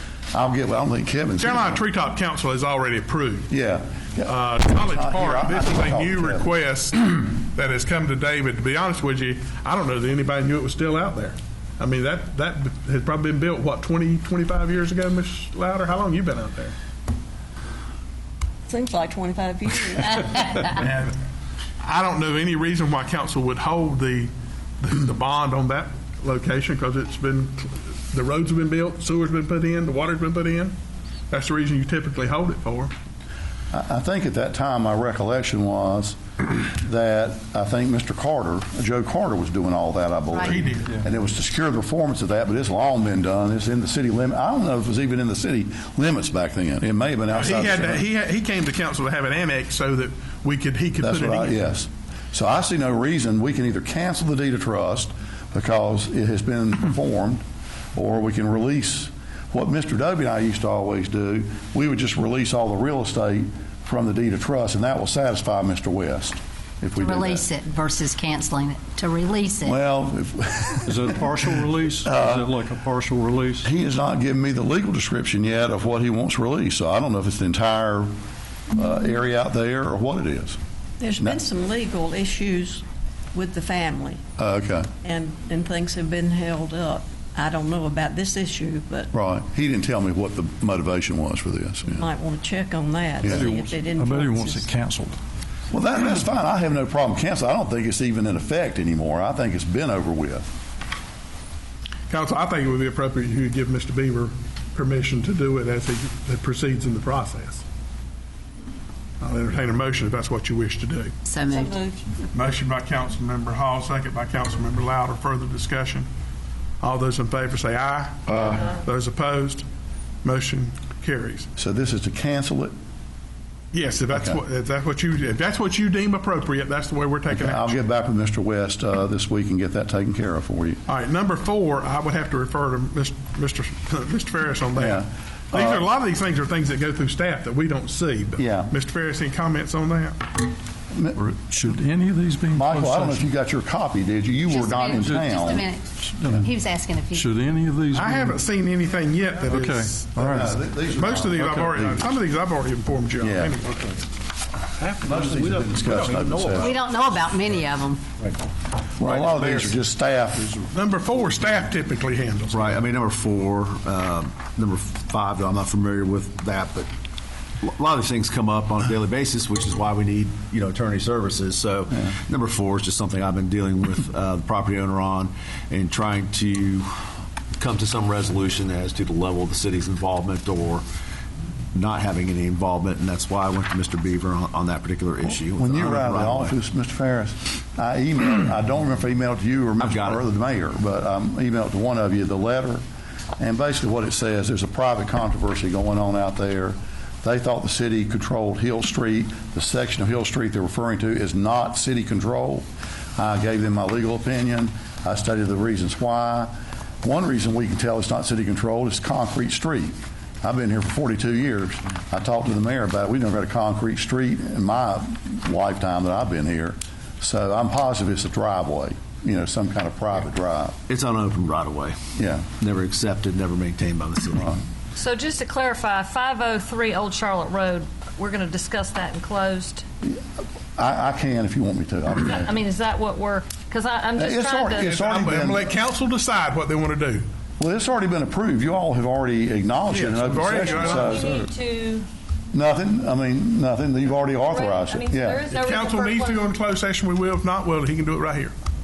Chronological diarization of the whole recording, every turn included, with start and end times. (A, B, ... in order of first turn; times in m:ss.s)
0:00.3-0:01.8 A
0:01.4-0:03.5 B
0:03.5-0:06.5 A
0:04.2-0:16.8 B
0:18.7-0:20.6 C
0:20.6-0:21.1 B
0:21.8-0:30.8 B
0:31.3-0:32.9 B
0:33.7-0:48.0 A
0:40.4-0:41.0 B
0:47.3-0:51.6 B
0:51.0-0:57.4 A
0:58.0-1:07.5 A
1:07.0-1:09.8 D
1:09.6-1:11.3 A
1:10.9-1:13.7 E
1:12.0-1:12.6 A
1:13.6-1:18.1 A
1:18.7-1:20.6 A
1:21.0-1:24.2 C
1:24.4-1:24.9 A
1:25.0-1:29.1 C
1:29.1-1:32.1 A
1:31.9-1:34.6 C
1:33.3-1:35.2 E
1:35.7-1:40.4 A
1:42.1-1:47.6 B
1:49.2-1:51.1 B
1:51.3-1:51.7 D
1:51.4-1:52.2 C
1:52.3-1:56.1 B
1:56.8-1:59.6 B
2:00.2-2:01.5 B
2:01.6-2:02.7 A
2:03.7-2:07.8 B
2:04.1-2:04.4 A
2:07.3-2:10.8 A
2:10.9-2:20.2 B
2:14.8-2:15.9 A
2:18.4-2:18.7 A
2:20.9-2:21.2 A
2:21.2-2:23.3 E
2:22.5-2:25.7 A
2:24.5-2:27.3 D
2:25.0-2:25.4 E
2:26.0-2:26.5 E
2:27.1-2:28.4 E
2:27.9-2:30.3 B
2:29.5-2:30.6 E
2:30.2-2:32.0 A
2:30.9-2:34.0 B
2:31.3-2:31.8 E
2:33.2-2:33.6 A
2:34.8-2:36.7 F
2:35.0-2:36.8 A
2:35.8-2:36.4 E
2:36.6-2:38.0 D
2:39.0-2:40.6 A
2:40.7-2:42.7 B
2:42.5-2:46.9 F
2:47.6-3:00.8 F
3:01.7-3:06.6 F
3:05.3-3:12.8 A
3:09.8-3:10.2 F
3:13.4-3:40.8 A
3:40.9-3:42.0 F
3:42.2-3:42.5 A
3:42.6-3:44.6 F
3:44.9-3:49.8 G
3:50.0-3:52.5 A
3:52.2-3:54.9 G
3:54.2-3:55.7 A
3:54.8-3:57.2 B
3:57.6-4:01.3 A
3:59.9-4:01.5 B
4:00.5-4:02.1 G
4:02.5-4:05.4 A
4:04.4-4:06.5 G
4:05.5-4:08.5 B